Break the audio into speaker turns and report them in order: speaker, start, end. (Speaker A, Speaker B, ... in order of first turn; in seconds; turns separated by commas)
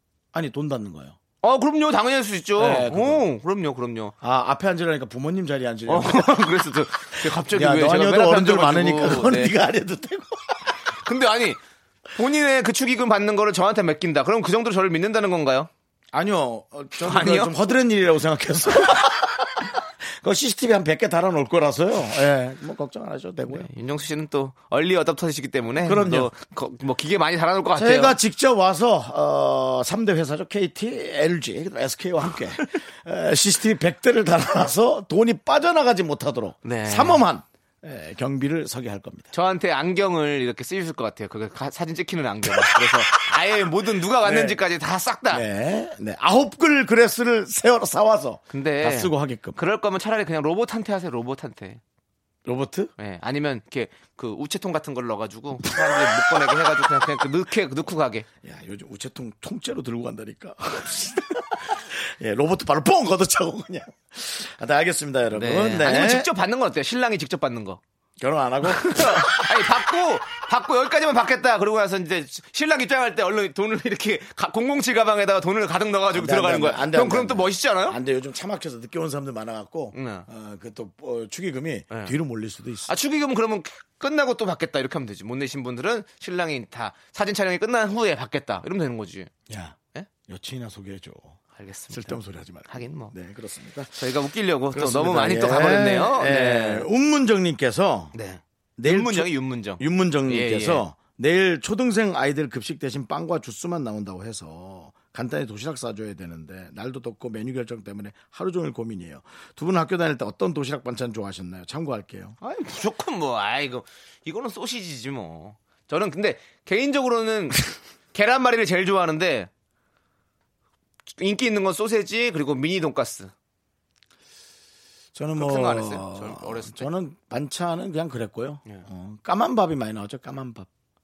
Speaker A: 0.3-1.2, Speaker B: 1.4-4.1, Speaker A: 2.6-3.3, Speaker A: 4.2-10.8, Speaker B: 5.9-9.5, Speaker B: 10.9-11.6, Speaker B: 12.1-15.7, Speaker A: 16.1-23.7, Speaker B: 17.0-17.6, Speaker B: 23.5-28.2, Speaker A: 25.8-26.3, Speaker A: 27.8-39.3, Speaker B: 36.6-37.2, Speaker B: 39.3-45.5, Speaker A: 42.5-43.5, Speaker A: 44.2-44.6, Speaker A: 45.3-49.6, Speaker B: 48.5-51.8, Speaker A: 52.5-52.9, Speaker B: 53.0-58.3, Speaker A: 55.6-56.8, Speaker A: 58.4-66.3, Speaker B: 65.3-67.8, Speaker A: 68.2-69.9, Speaker B: 68.6-78.0, Speaker A: 76.1-82.9, Speaker B: 79.9-80.3, Speaker B: 82.9-89.3, Speaker A: 89.5-91.4, Speaker B: 91.6-93.1, Speaker A: 91.9-94.0, Speaker B: 94.0-96.9, Speaker A: 94.7-98.1, Speaker B: 98.1-100.8, Speaker A: 98.8-112.4, Speaker B: 112.4-119.5, Speaker B: 121.2-123.3, Speaker A: 125.2-130.7, Speaker B: 125.4-126.9